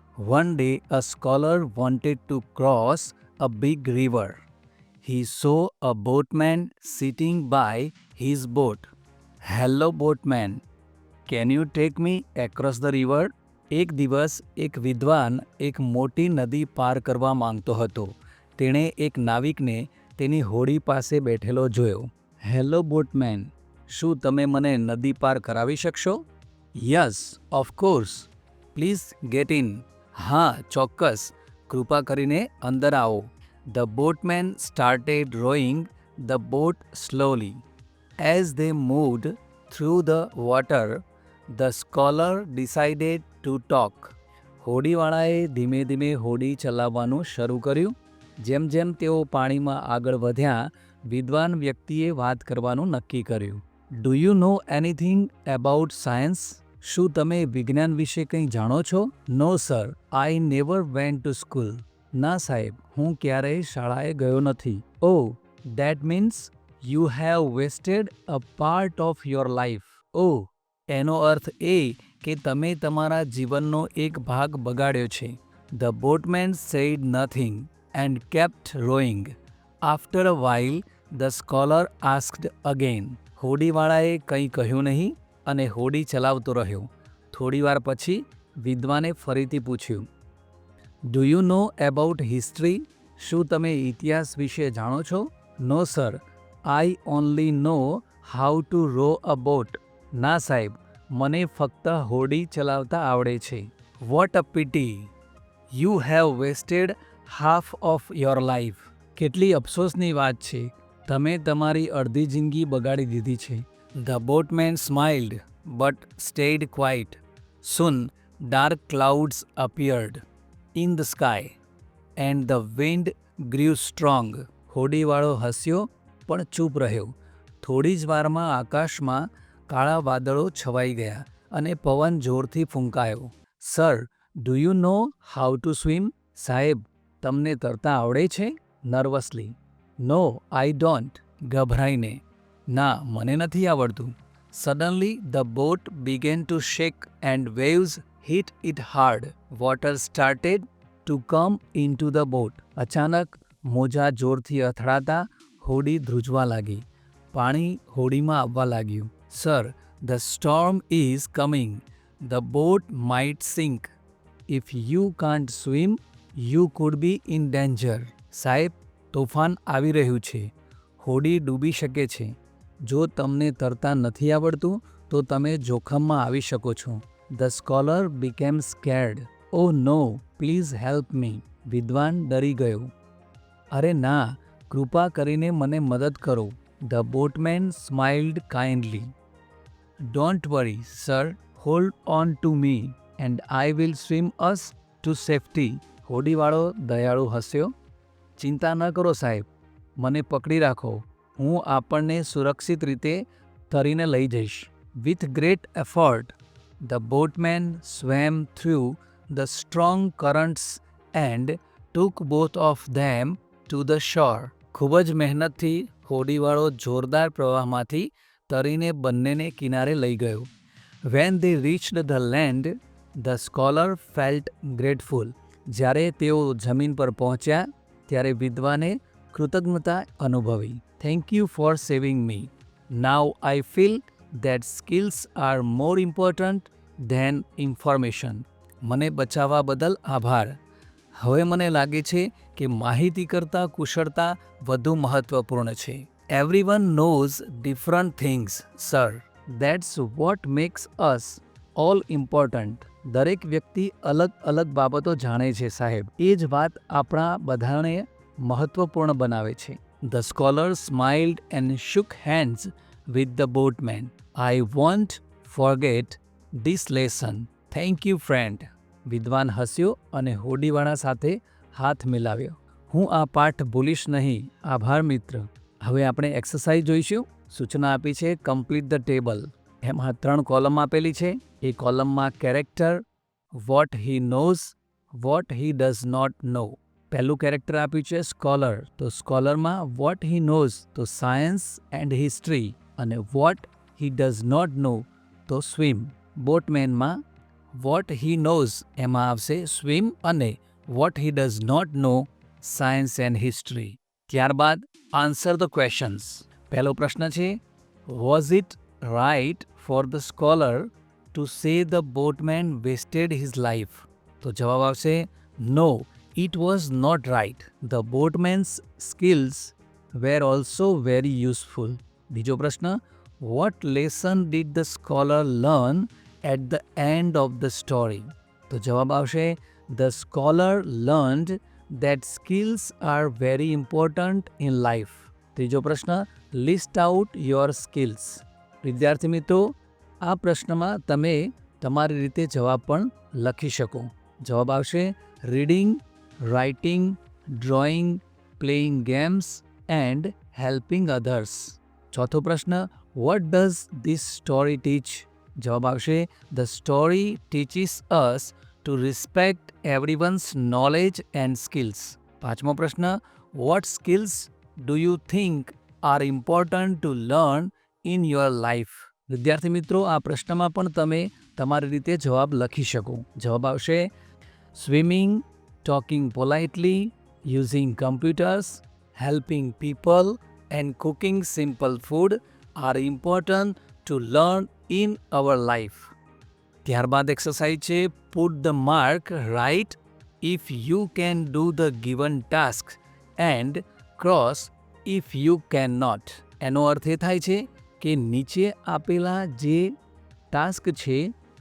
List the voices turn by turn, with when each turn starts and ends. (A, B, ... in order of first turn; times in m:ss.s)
0:00.2-0:04.4 A
0:05.0-0:08.9 A
0:09.4-0:10.6 A
0:11.3-0:26.2 A
0:26.8-0:37.6 A
0:38.2-1:19.3 A
1:19.8-1:30.1 A
1:31.1-1:45.1 A
1:45.7-2:00.2 A
2:00.7-2:01.6 A
2:02.2-2:43.9 A
2:44.5-2:50.5 A
2:51.0-2:52.3 A
2:52.8-3:02.9 A
3:03.7-3:09.1 A
3:10.0-3:17.7 A
3:18.4-3:19.5 A
3:20.0-3:40.5 A
3:41.1-4:00.6 A
4:01.2-4:43.0 A
4:43.5-4:57.2 A
4:57.7-6:14.1 A
6:14.7-6:26.1 A
6:26.8-6:39.9 A
6:40.5-6:41.3 A